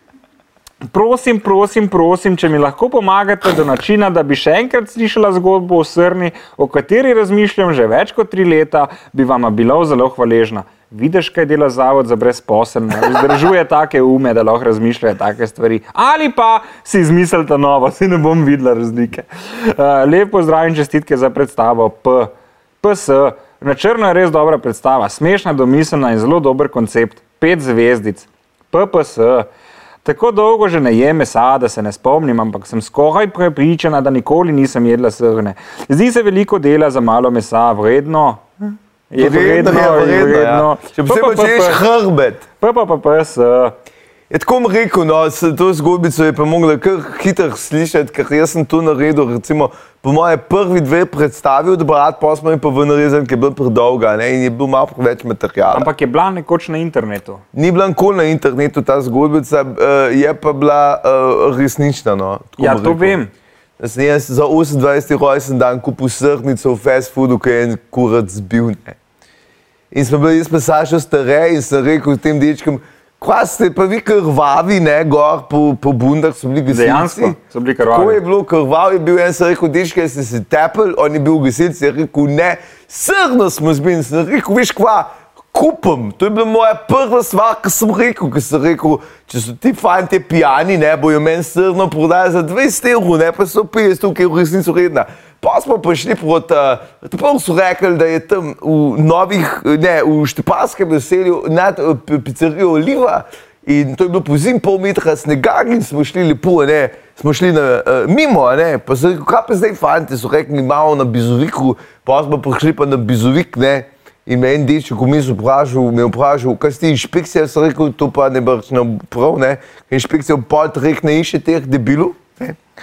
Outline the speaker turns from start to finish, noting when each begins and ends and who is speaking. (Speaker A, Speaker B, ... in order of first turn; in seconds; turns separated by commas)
Speaker A: 0.9-29.5, Speaker A: 30.0-41.8, Speaker B: 39.2-42.4, Speaker A: 42.6-43.8, Speaker B: 44.3-55.9, Speaker A: 55.7-57.4, Speaker B: 57.5-63.2, Speaker A: 62.6-63.3, Speaker B: 63.8-69.0, Speaker B: 69.9-122.6, Speaker A: 76.7-78.2